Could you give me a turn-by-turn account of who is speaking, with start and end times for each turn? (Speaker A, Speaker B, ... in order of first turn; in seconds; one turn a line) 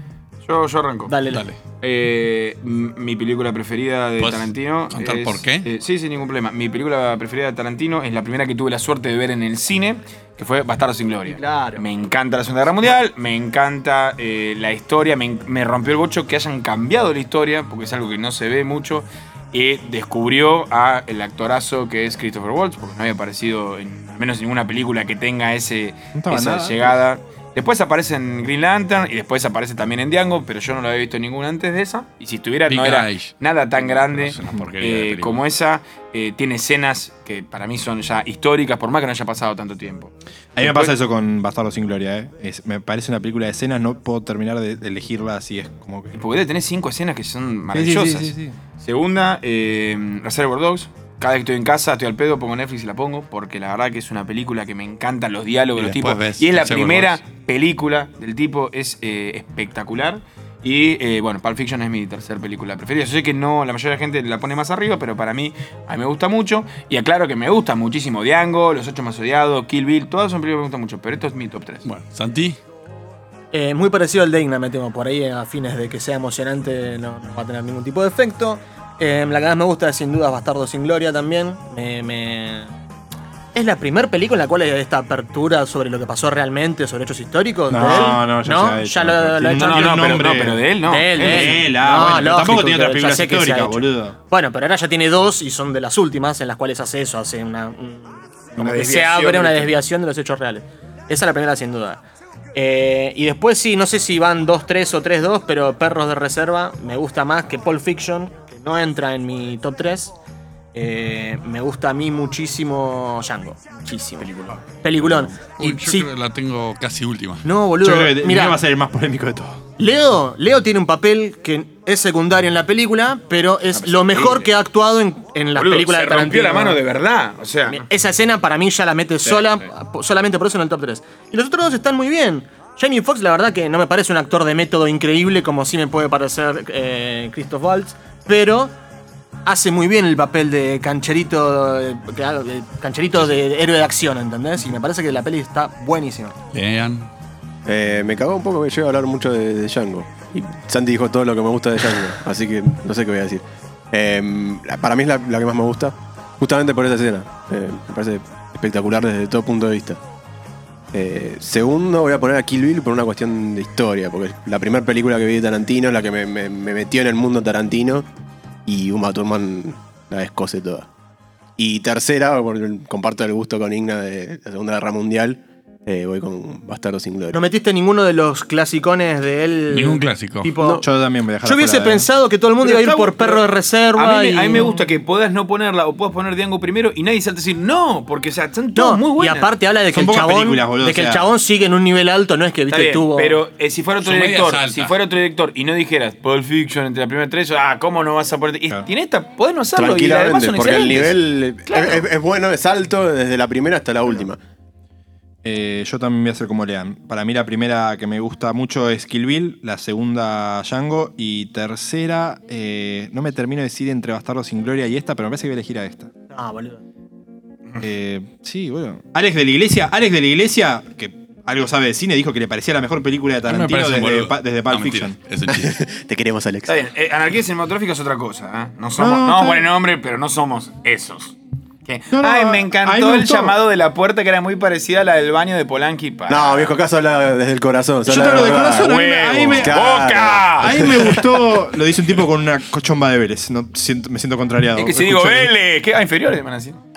Speaker A: 0.4-1.1
Speaker B: 1.1-1.4
Speaker C: 1.3-1.6
Speaker A: 1.7-40.9
Speaker C: 4.2-5.7
Speaker B: 11.3-11.8
Speaker D: 26.1-27.0
Speaker C: 32.7-35.4
Speaker D: 40.5-46.2
Speaker A: 46.1-71.8
Speaker D: 47.7-48.5
Speaker C: 55.8-57.2
Speaker C: 71.8-72.6
Speaker B: 73.5-82.7
Speaker B: 83.5-102.0
Speaker D: 87.7-90.7
Speaker A: 89.4-91.7
Speaker D: 91.2-94.2
Speaker A: 98.5-99.7
Speaker B: 102.5-110.1
Speaker B: 110.7-116.1
Speaker C: 115.6-117.5
Speaker B: 117.4-118.6
Speaker D: 117.8-119.6
Speaker B: 119.8-126.8
Speaker A: 123.7-124.5
Speaker A: 125.5-127.9
Speaker B: 127.7-138.7
Speaker A: 129.3-129.5
Speaker B: 139.4-146.3
Speaker C: 146.5-147.1
Speaker E: 147.7-160.0
Speaker E: 160.9-168.0
Speaker E: 168.7-170.9
Speaker E: 171.6-177.4
Speaker B: 177.3-180.8
Speaker C: 179.7-180.5
Speaker E: 180.6-180.8
Speaker D: 180.8-182.1
Speaker B: 181.4-184.7
Speaker A: 182.6-183.4
Speaker A: 183.9-189.5
Speaker B: 188.7-193.4
Speaker D: 189.9-191.3
Speaker A: 192.7-202.1
Speaker C: 194.0-194.9
Speaker E: 199.7-204.4
Speaker D: 205.4-216.1
Speaker B: 216.3-216.8
Speaker D: 217.8-225.2
Speaker C: 223.5-225.8
Speaker E: 225.5-226.8
Speaker A: 226.7-236.8
Speaker D: 229.0-229.7
Speaker D: 232.1-233.6
Speaker E: 236.3-238.9
Speaker D: 238.1-239.8
Speaker A: 238.2-241.3
Speaker E: 239.5-240.8
Speaker D: 240.6-245.5
Speaker A: 244.7-246.8